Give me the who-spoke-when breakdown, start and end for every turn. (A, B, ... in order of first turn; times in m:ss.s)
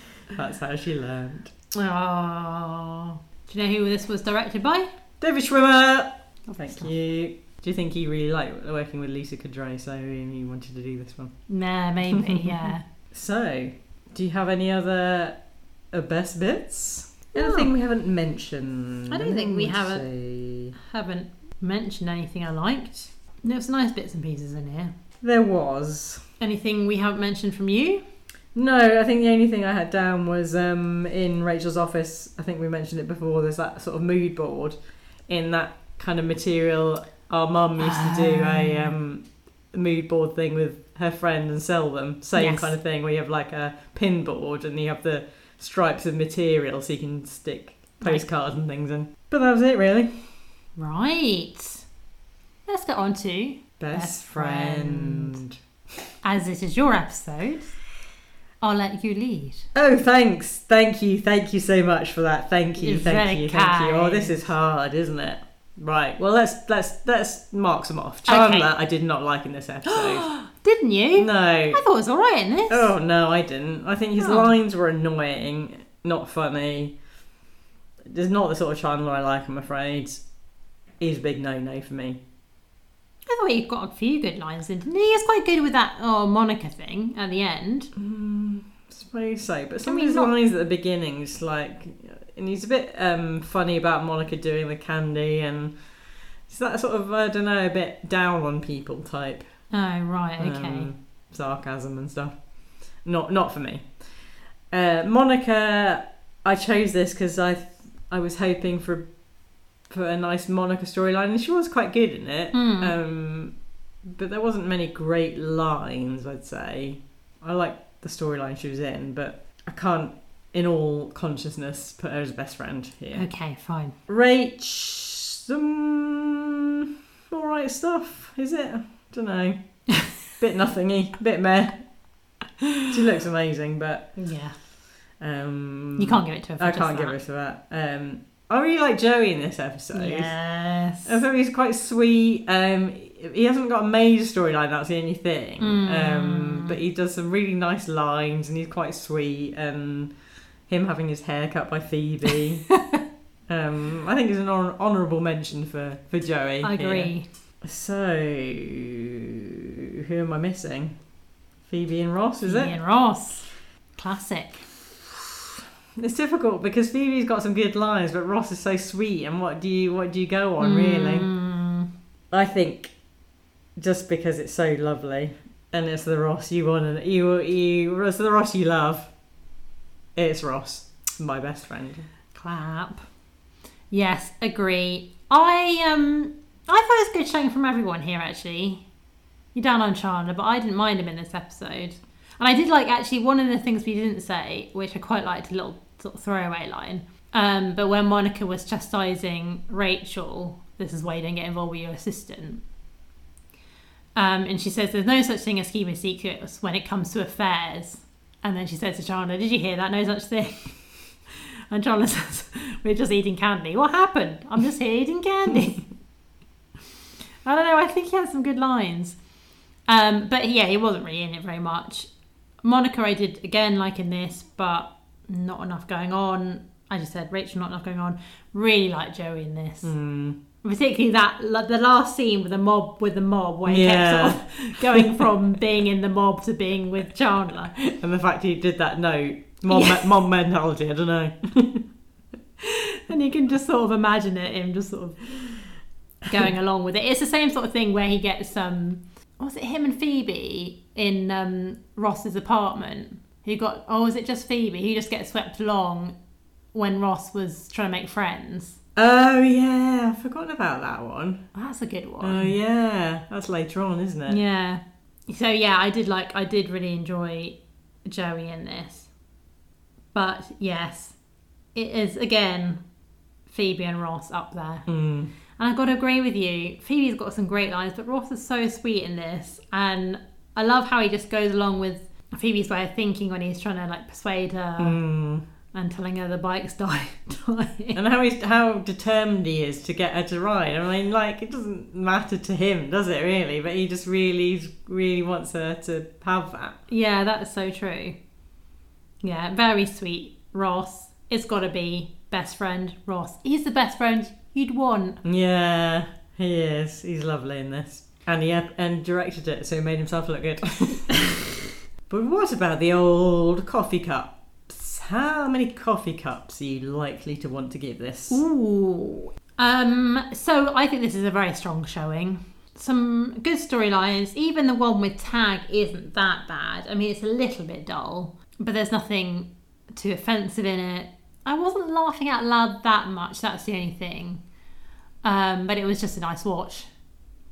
0:00.3-0:01.5 A
0:01.7-0:04.9 B
0:05.2-0:11.3 A
0:06.5-0:06.9 B
0:11.5-0:12.8 B
0:12.1-0:12.4 A
0:13.1-0:15.4 A
0:15.9-0:20.7 A
0:17.3-0:17.7 B
0:19.1-0:20.0 B
0:20.8-0:24.9 B
0:25.2-0:26.2 A
0:26.4-0:28.0 B
0:28.5-0:34.8 A
0:35.3-0:50.2 A
0:37.8-0:39.0 B
0:42.4-0:42.7 B
0:50.8-0:51.8 B
0:52.7-0:55.4 B
0:53.8-0:55.6 A
0:56.2-0:57.8 B
0:58.6-0:59.7 B
0:59.7-1:10.3 A
1:02.8-1:04.4 B
1:08.3-1:08.7 B
1:09.9-1:12.9 B
1:11.2-1:11.8 A
1:12.7-1:16.9 A
1:14.2-1:14.5 B
1:18.1-1:20.2 A
1:21.0-1:22.2 A
1:23.3-1:27.9 B
1:27.9-1:35.7 A
1:29.8-1:30.3 B
1:36.5-1:39.5 A
1:39.7-1:40.9 B
1:40.4-1:42.4 A
1:43.0-1:43.9 A
1:44.7-1:49.1 A
1:49.9-1:53.5 A
1:52.5-1:52.9 B
1:54.1-2:03.2 A
2:03.1-2:03.9 B
2:04.1-2:09.6 A
2:10.4-2:11.8 A
2:12.6-2:12.8 B
2:12.9-2:14.1 A
2:14.2-2:14.6 B
2:15.2-2:20.3 A
2:16.0-2:17.2 B
2:19.9-2:21.2 B
2:21.0-2:30.1 A
2:25.6-2:26.8 B
2:30.7-2:32.7 A
2:33.5-2:37.1 A
2:36.6-2:37.3 B
2:37.6-2:39.3 A
2:40.0-2:41.0 A
2:41.7-2:42.7 A
2:42.4-2:44.6 B
2:45.0-2:51.3 A
2:50.6-2:51.9 B
2:52.3-2:52.9 A
2:53.8-2:59.1 A
3:00.2-3:02.1 A
3:02.3-3:03.0 B
3:03.9-3:08.8 B
3:09.5-3:22.6 B
3:24.2-3:35.8 B
3:37.4-3:39.1 B
3:39.9-3:42.1 B
3:42.6-3:49.9 B
3:49.8-3:50.4 A
3:50.6-3:57.7 B
3:53.6-3:55.3 A
3:57.7-4:01.8 A
3:59.7-4:00.1 B
4:02.6-4:05.6 B
4:06.3-4:16.1 B
4:16.7-4:18.8 B
4:19.0-4:21.4 A
4:21.5-4:22.6 B
4:22.2-4:24.4 A
4:24.3-4:29.1 B
4:30.1-4:31.1 B
4:31.7-4:32.8 B
4:33.5-4:34.9 B
4:34.9-4:35.3 A
4:35.6-4:45.0 B
4:44.8-4:45.4 A
4:45.7-4:48.0 B
4:47.9-4:56.8 A
4:56.9-4:58.2 B
4:59.2-5:05.2 B
5:05.2-5:18.4 A
5:18.3-5:34.4 B
5:35.2-5:36.9 B